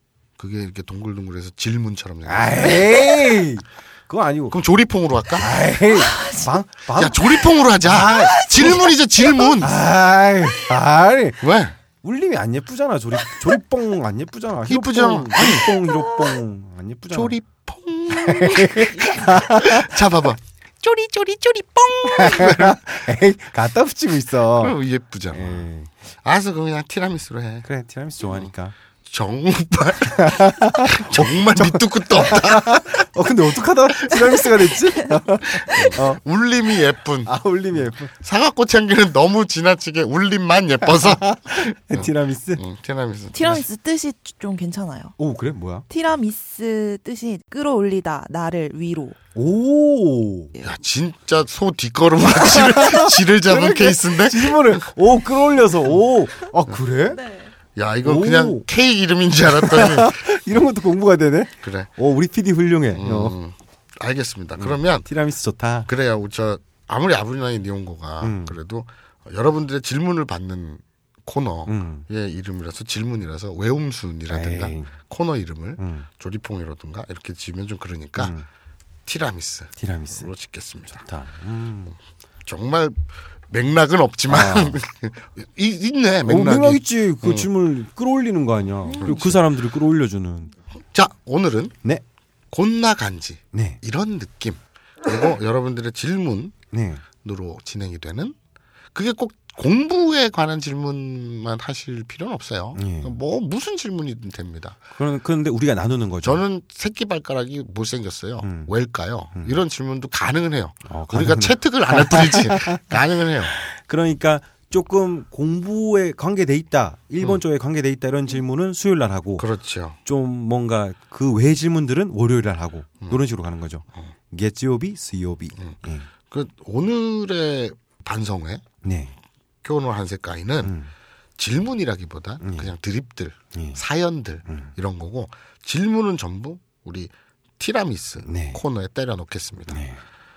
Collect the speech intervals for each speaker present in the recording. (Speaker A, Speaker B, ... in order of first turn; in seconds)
Speaker A: 0.4-3.0, 4.5-5.6, 6.9-9.8, 11.4-11.8, 14.7-15.8, 17.1-23.0, 24.6-25.7, 26.2-27.7, 28.2-28.5, 29.1-33.0, 34.0-34.5, 35.6-43.5, 50.6-54.9, 57.8-60.3, 61.6-61.9, 62.9-65.1, 65.9-78.3, 79.1-81.0, 82.5-87.5, 89.0-89.4, 90.9-91.8, 92.5-96.5, 97.2-98.3, 98.9-104.8, 106.2-113.6, 119.4-120.0, 126.3-128.6, 129.6-130.8, 131.4-139.9
Speaker B: 2.2-4.6, 5.4-8.9, 9.6-11.4, 12.0-17.4, 18.1-20.0, 22.1-24.8, 25.3-25.9, 27.6-28.8, 30.1-36.2, 37.2-38.1, 41.0-42.6, 45.2-45.9, 49.4-50.5, 52.3-57.2, 58.0-58.7, 59.5-63.4, 64.6-65.9, 68.2-68.6, 71.7-72.1, 74.3-75.0, 75.8-76.1, 78.2-78.5, 79.8-80.3, 80.9-82.0, 84.3-84.8, 86.2-90.5, 93.5-93.8, 96.7-97.0, 102.8-103.1, 105.0-106.4, 108.4-108.7, 110.9-112.8, 113.5-119.5, 120.0-126.1, 128.8-129.1, 130.6-130.9, 132.4-132.7, 133.5-133.8, 134.5-134.7, 138.2-138.6, 139.7-140.0
Speaker C: 6.0-6.5, 43.3-45.2, 45.9-49.2, 57.1-57.5